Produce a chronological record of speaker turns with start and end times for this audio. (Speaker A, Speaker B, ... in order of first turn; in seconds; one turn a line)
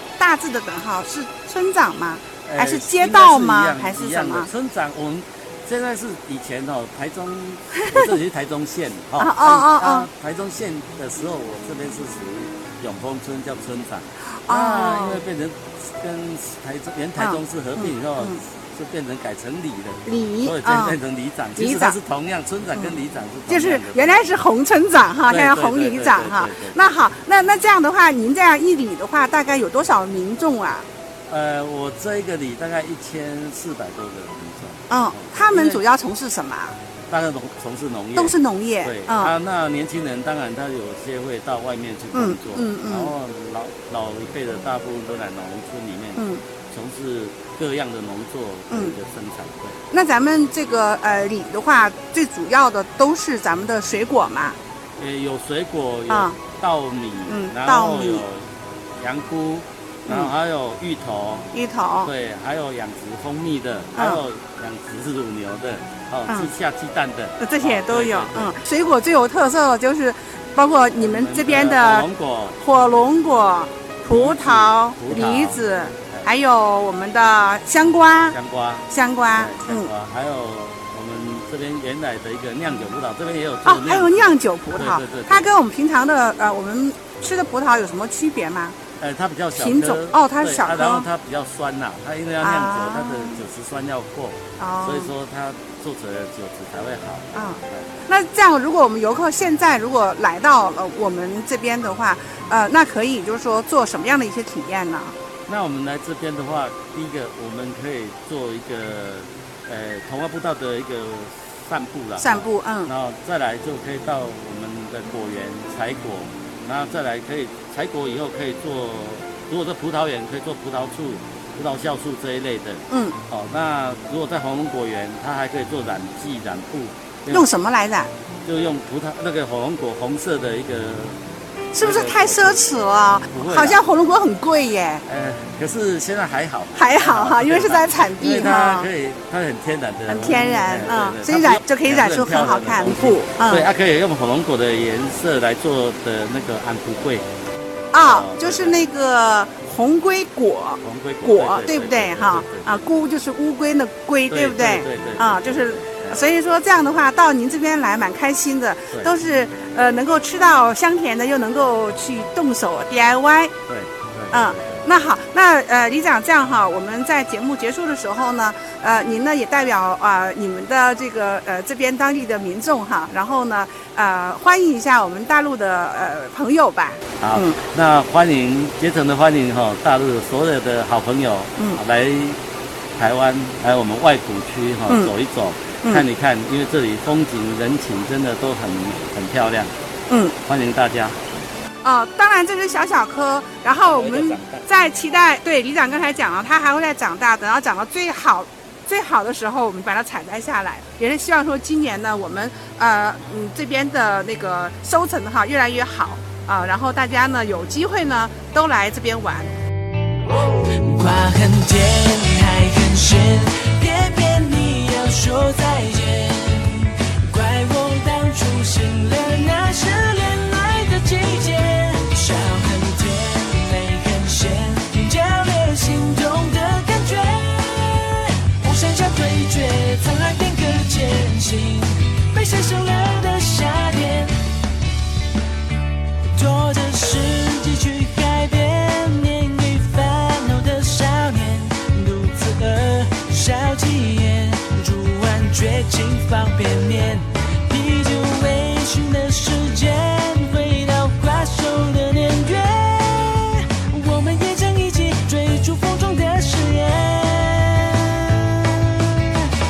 Speaker A: 0.2-4.5
Speaker B: 2.4-24.3
Speaker A: 7.8-8.1
Speaker A: 9.2-10.1
Speaker A: 14.4-15.2
Speaker A: 17.2-18.4
Speaker A: 20.1-21.0
Speaker A: 21.6-21.9
Speaker A: 23.5-30.9
Speaker B: 25.3-26.8
Speaker B: 31.3-35.8
Speaker A: 34.9-36.8
Speaker B: 37.1-49.8
Speaker A: 38.1-39.3
Speaker A: 42.1-43.1
Speaker A: 46.2-46.4
Speaker A: 49.9-54.6
Speaker B: 55.0-68.5
Speaker A: 56.1-56.4
Speaker A: 57.3-58.2
Speaker A: 60.0-60.3
Speaker A: 61.5-62.1
Speaker A: 64.0-64.2
Speaker A: 67.4-72.0
Speaker B: 71.0-72.6
Speaker A: 72.6-78.3
Speaker B: 74.0-76.3
Speaker B: 78.3-85.5
Speaker A: 78.9-79.9
Speaker A: 83.6-88.8
Speaker B: 89.0-98.0
Speaker A: 89.5-91.1
Speaker A: 92.4-93.4
Speaker A: 94.6-95.1
Speaker A: 97.3-105.1
Speaker B: 105.5-127.5
Speaker A: 112.2-112.9
Speaker A: 122.9-123.2
Speaker A: 127.3-128.1
Speaker B: 128.4-131.2
Speaker A: 131.7-135.0
Speaker B: 131.7-132.6
Speaker B: 133.3-133.8
Speaker B: 135.0-147.2
Speaker A: 136.8-138.9
Speaker A: 140.1-143.7
Speaker A: 147.9-163.5
Speaker B: 148.0-148.9
Speaker B: 150.8-152.9
Speaker B: 154.3-156.3
Speaker B: 163.7-164.8
Speaker A: 164.3-177.6
Speaker B: 177.2-182.4
Speaker B: 183.0-189.7
Speaker A: 190.1-190.3
Speaker B: 190.4-191.2
Speaker A: 191.8-209.5
Speaker B: 193.8-194.7
Speaker C: 210.6-234.4
Speaker C: 236.3-259.5